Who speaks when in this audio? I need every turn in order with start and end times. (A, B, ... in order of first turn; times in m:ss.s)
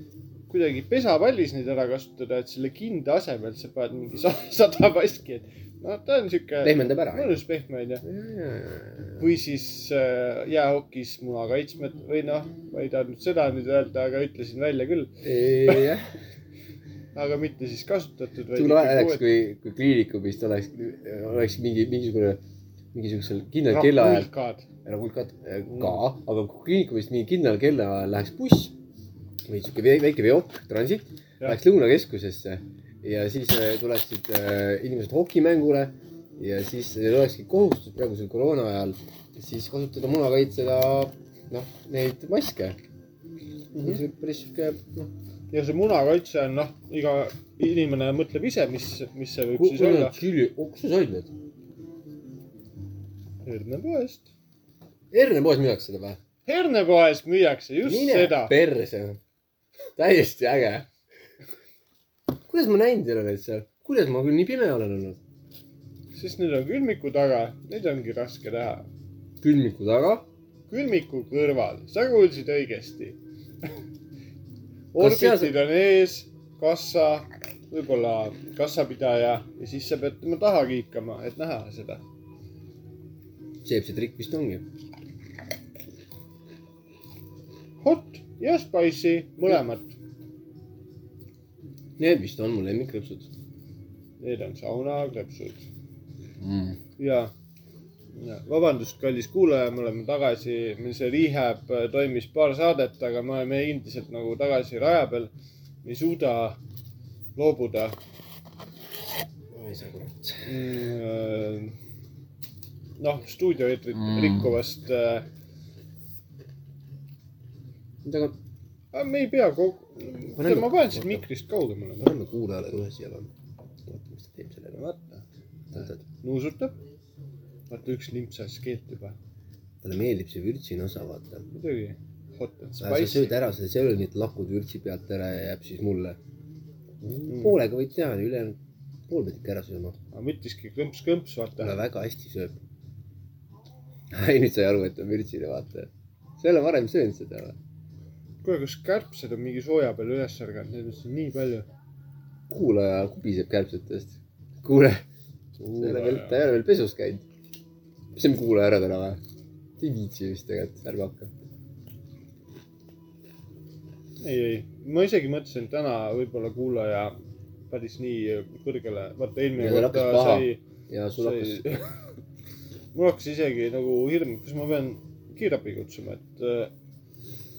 0:00.5-0:08.0 A
0:06.6-0:07.4 B
0:08.0-0:09.2 B
0:09.2-0:15.9 A
0:15.2-0:16.1 B
0:17.1-0:19.3 A
0:18.5-0:22.4 B
0:22.9-0:24.3 B
0:23.7-0:24.7 A
0:24.8-0:28.7 B
0:25.7-0:26.0 A
0:29.5-0:42.8 B
0:43.7-0:44.0 A
0:43.8-0:45.1 B
0:45.5-0:50.2 A
0:49.5-0:51.3 B
0:53.4-0:54.3 A
0:55.1-0:56.2 B
0:56.4-0:58.5 A
0:57.8-0:59.2 B
1:00.0-1:00.9 B
1:02.5-1:05.2 B
1:06.1-1:08.9 A
1:09.4-1:10.2 B
1:10.7-1:13.2 A
1:14.9-1:22.0 A
1:15.0-1:15.6 B
1:23.6-1:24.6 B
1:27.8-1:30.0 A
1:32.0-1:33.3 B
1:34.2-1:35.6 A
1:36.4-1:36.8 B
1:37.0-1:37.3 A
1:38.2-1:45.3 A
1:45.8-1:46.6 A
1:47.4-1:48.0 A
1:49.5-1:50.5 B
1:50.4-1:51.8 A
1:53.0-1:55.3 A
1:53.9-1:54.6 B
1:58.0-1:58.4 B
1:58.9-2:02.1 A
2:00.4-2:01.2 B
2:02.0-2:03.3 B
2:03.8-2:04.8 B
2:04.7-2:05.2 A
2:05.7-2:06.0 B
2:05.8-2:06.7 A
2:07.7-2:09.2 A
2:09.8-2:11.5 B
2:11.5-2:13.3 A
2:12.8-2:16.2 B
2:17.0-2:18.6 B
2:17.3-2:17.6 A
2:19.1-2:20.0 B
2:20.1-2:21.8 A
2:21.6-2:22.6 B
2:24.1-2:27.6 B
2:28.4-2:31.7 A
2:32.5-2:35.0 B
2:35.6-2:36.4 A
2:35.6-2:37.2 B
2:38.1-2:39.2 B
2:39.8-2:41.3 B
2:44.2-2:47.1 A
2:47.7-2:50.6 A
2:49.6-2:51.8 B
2:51.2-2:51.9 A
2:52.9-2:56.7 A